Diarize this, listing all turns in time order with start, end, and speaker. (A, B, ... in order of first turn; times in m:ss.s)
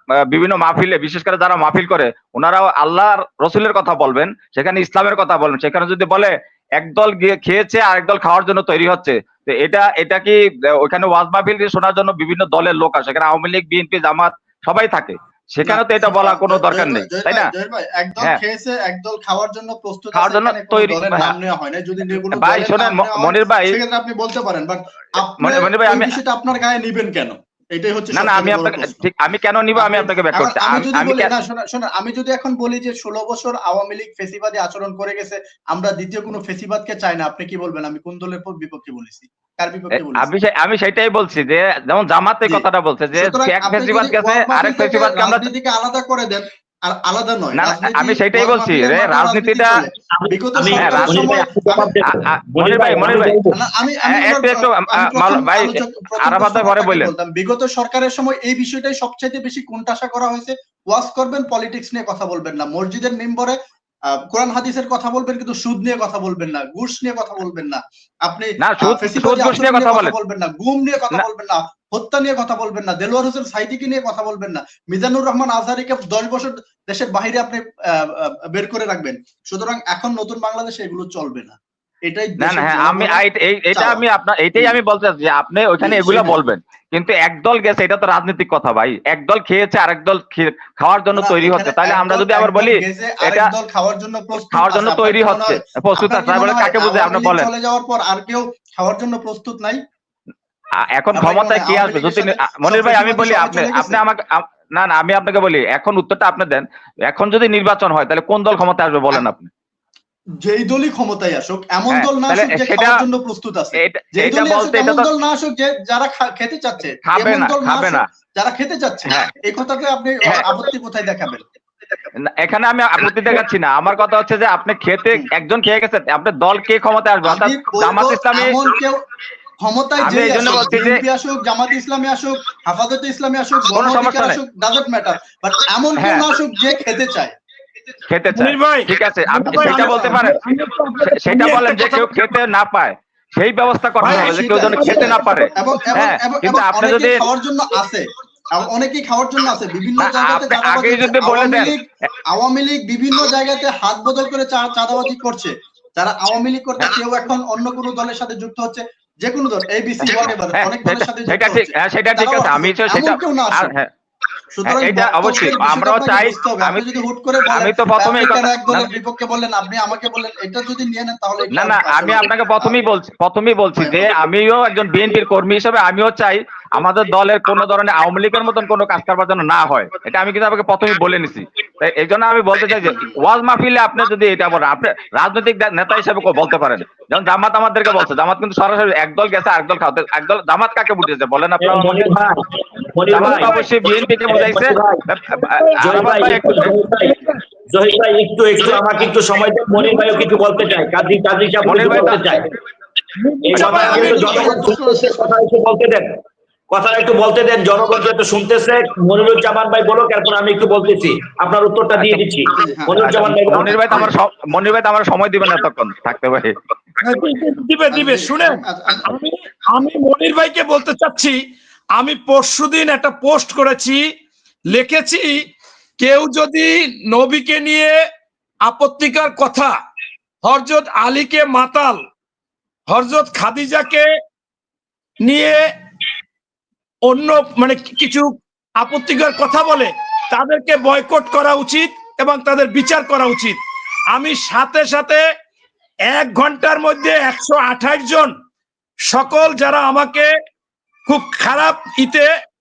0:00.3-0:17.5 A
0:15.6-0:29.0 B
0:20.2-0:21.3 A
0:22.3-0:23.8 A
0:25.4-0:26.1 A
0:28.1-0:31.3 A
0:29.8-0:40.3 B
0:40.0-0:45.5 A
0:42.4-0:51.9 B
0:47.5-0:49.8 A
0:50.2-0:53.6 C
0:50.8-0:51.3 A
0:52.6-0:53.4 A
0:53.5-1:03.6 B
0:54.1-0:57.1 A
1:04.1-1:24.0 B
1:08.6-1:10.1 A
1:22.4-1:33.5 A
1:25.8-1:26.4 B
1:31.2-1:39.8 B
1:34.5-1:37.5 A
1:40.8-1:49.5 A
1:41.1-1:44.0 B
1:50.4-2:01.4 B
1:51.9-1:53.0 A
1:53.8-1:55.1 A
1:57.0-1:58.0 A
2:02.4-2:08.6 A
2:07.2-2:09.0 B
2:09.6-2:17.3 B
2:10.0-2:11.0 A
2:13.7-2:14.4 A
2:16.0-2:16.3 A
2:18.1-2:20.4 A
2:18.3-2:22.4 D
2:19.5-2:20.2 B
2:21.2-2:27.2 A
2:24.0-2:25.8 D
2:24.0-2:43.7 B
2:30.0-2:31.7 A
2:40.0-2:43.9 A
2:44.6-2:52.8 B
2:44.6-2:46.8 A
2:47.5-2:48.9 A
2:51.5-3:12.1 A
2:53.8-2:54.2 B
3:11.6-3:13.5 C
3:13.1-3:16.7 A
3:13.2-3:13.7 D
3:14.3-3:15.0 C
3:15.4-3:17.3 D
3:15.8-3:22.5 C
3:19.7-3:20.8 D
3:21.6-3:22.3 A
3:23.2-3:24.5 D
3:23.4-3:26.1 C
3:23.5-3:25.2 B
3:26.7-3:34.1 C
3:32.0-3:32.2 A
3:32.6-3:34.1 B
3:33.5-3:36.5 A
3:37.0-3:41.4 D
3:37.9-3:39.1 B
3:42.0-3:44.0 D
3:44.7-3:45.4 D
3:46.0-3:48.0 D
3:48.7-3:49.7 D
3:50.4-3:52.0 D
3:52.9-3:54.1 D
3:55.2-3:55.6 D
3:57.1-4:03.6 D
4:04.1-4:05.2 D
4:06.1-4:08.3 D
4:09.1-4:10.3 D
4:11.1-4:12.3 D